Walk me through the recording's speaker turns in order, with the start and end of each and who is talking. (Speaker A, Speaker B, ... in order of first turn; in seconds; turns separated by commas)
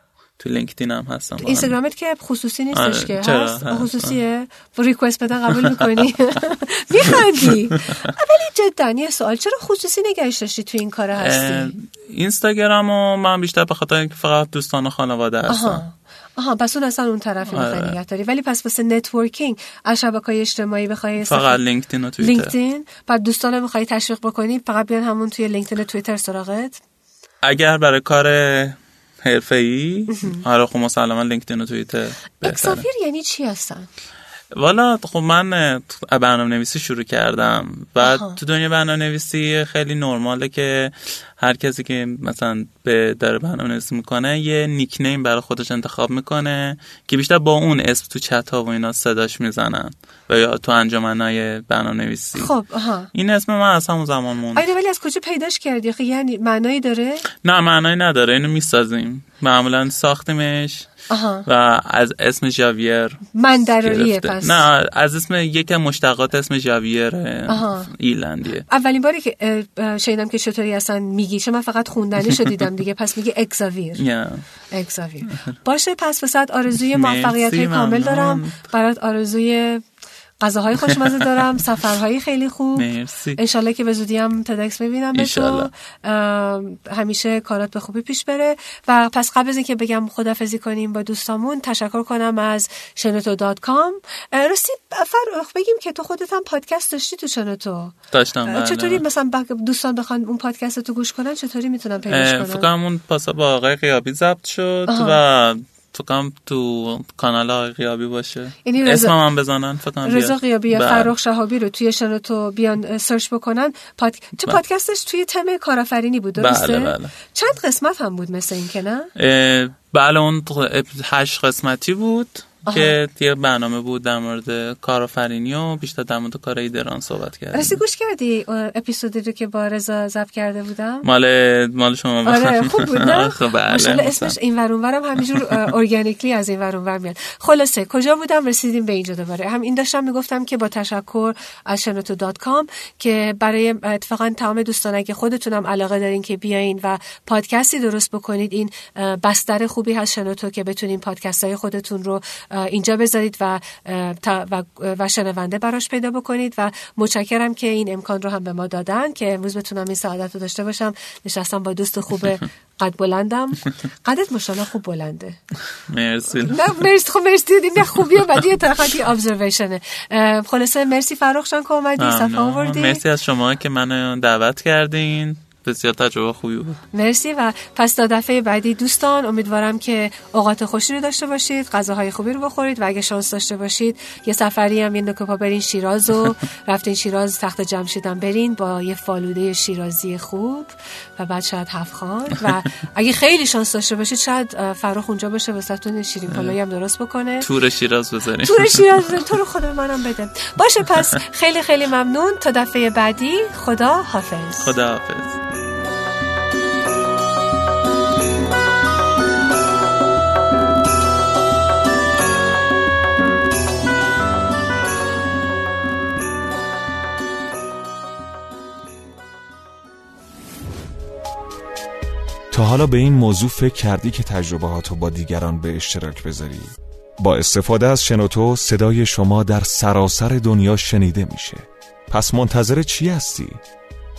Speaker A: 0.4-1.7, Speaker B: 1.4-11.7, Speaker A: 2.7-4.2, Speaker A: 5.5-6.1, Speaker A: 7.0-8.1, Speaker A: 11.2-15.8, Speaker B: 15.5-21.6, Speaker A: 17.5-17.9, Speaker A: 21.2-22.5, Speaker B: 22.2-26.8, Speaker A: 27.4-32.8, Speaker B: 30.1-30.4, Speaker B: 32.4-33.9, Speaker A: 34.5-52.5, Speaker B: 38.0-38.4, Speaker B: 52.4-53.1, Speaker A: 53.1-54.6, Speaker B: 54.5-57.3, Speaker A: 57.4-60.9, Speaker B: 61.1-61.4, Speaker A: 61.5-63.2, Speaker B: 63.3-64.7, Speaker A: 63.8-68.6, Speaker B: 67.5-67.9, Speaker B: 68.7-74.0, Speaker A: 74.0-74.4, Speaker B: 74.7-79.8, Speaker A: 76.8-78.6, Speaker B: 80.4-97.9, Speaker A: 80.9-81.2, Speaker A: 82.8-83.4, Speaker A: 85.1-85.7, Speaker A: 98.1-99.0, Speaker B: 98.5-102.7, Speaker A: 102.1-111.1, Speaker B: 104.9-105.2, Speaker B: 108.6-109.2, Speaker B: 110.0-119.1, Speaker A: 116.3-117.1, Speaker A: 119.2-127.8, Speaker B: 122.7-122.9, Speaker B: 127.5-131.1, Speaker A: 131.0-134.3, Speaker B: 132.2-165.4, Speaker A: 135.3-135.6, Speaker A: 165.9-166.8, Speaker B: 166.4-173.0, Speaker A: 172.0-176.8, Speaker B: 176.9-197.5, Speaker A: 196.3-196.6, Speaker A: 197.4-199.2, Speaker B: 198.4-204.7, Speaker A: 204.6-205.4, Speaker C: 222.5-233.6